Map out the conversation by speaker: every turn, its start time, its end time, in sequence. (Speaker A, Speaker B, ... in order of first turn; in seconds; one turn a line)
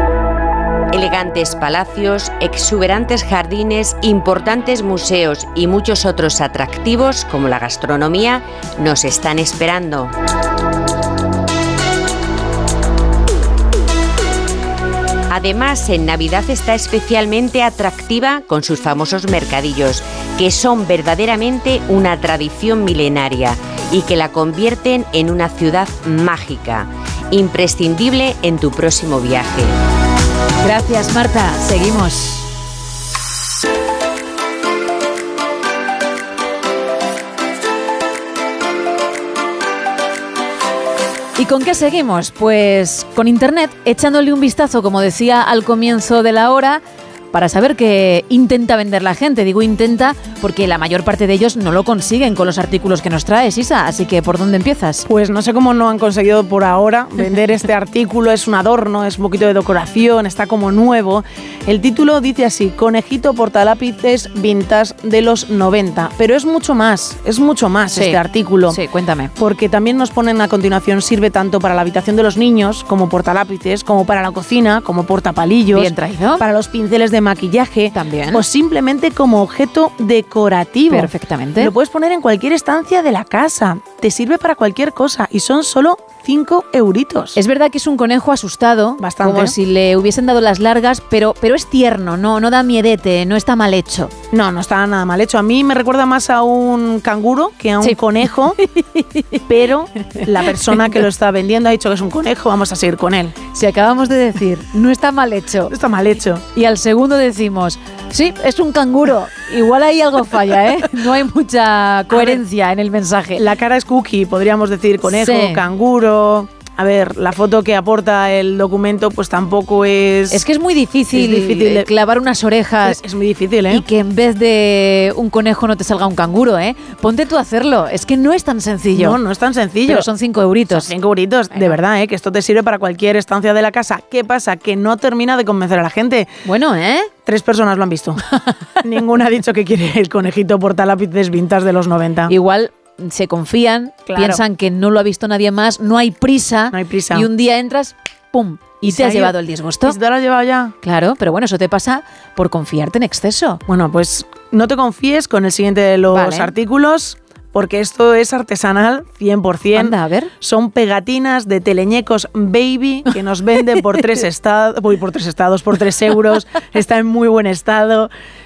Speaker A: 0.9-10.1
Speaker A: 15.3-29.7
Speaker B: 30.6-32.5
Speaker B: 41.4-55.1
Speaker C: 55.1-68.8
Speaker B: 67.9-69.3
Speaker C: 69.4-87.4
Speaker B: 75.7-76.4
Speaker B: 77.9-78.4
Speaker B: 80.9-81.7
Speaker B: 87.3-94.1
Speaker C: 89.0-89.5
Speaker C: 94.3-98.6
Speaker B: 98.6-99.4
Speaker C: 99.5-103.4
Speaker B: 100.5-101.0
Speaker B: 103.5-105.8
Speaker C: 105.7-106.4
Speaker B: 106.5-113.5
Speaker C: 112.1-112.4
Speaker C: 113.4-120.4
Speaker B: 115.0-115.6
Speaker B: 120.3-123.0
Speaker C: 121.1-121.9
Speaker C: 122.8-123.8
Speaker B: 123.7-129.2
Speaker C: 128.9-130.1
Speaker B: 129.9-130.9
Speaker C: 130.7-136.3
Speaker B: 136.4-137.1
Speaker C: 137.3-138.2
Speaker C: 138.8-142.3
Speaker B: 142.3-150.0
Speaker C: 144.1-144.4
Speaker C: 146.7-147.3
Speaker C: 148.8-150.7
Speaker B: 150.8-153.6
Speaker C: 153.7-168.1
Speaker B: 156.1-156.5
Speaker B: 159.7-160.3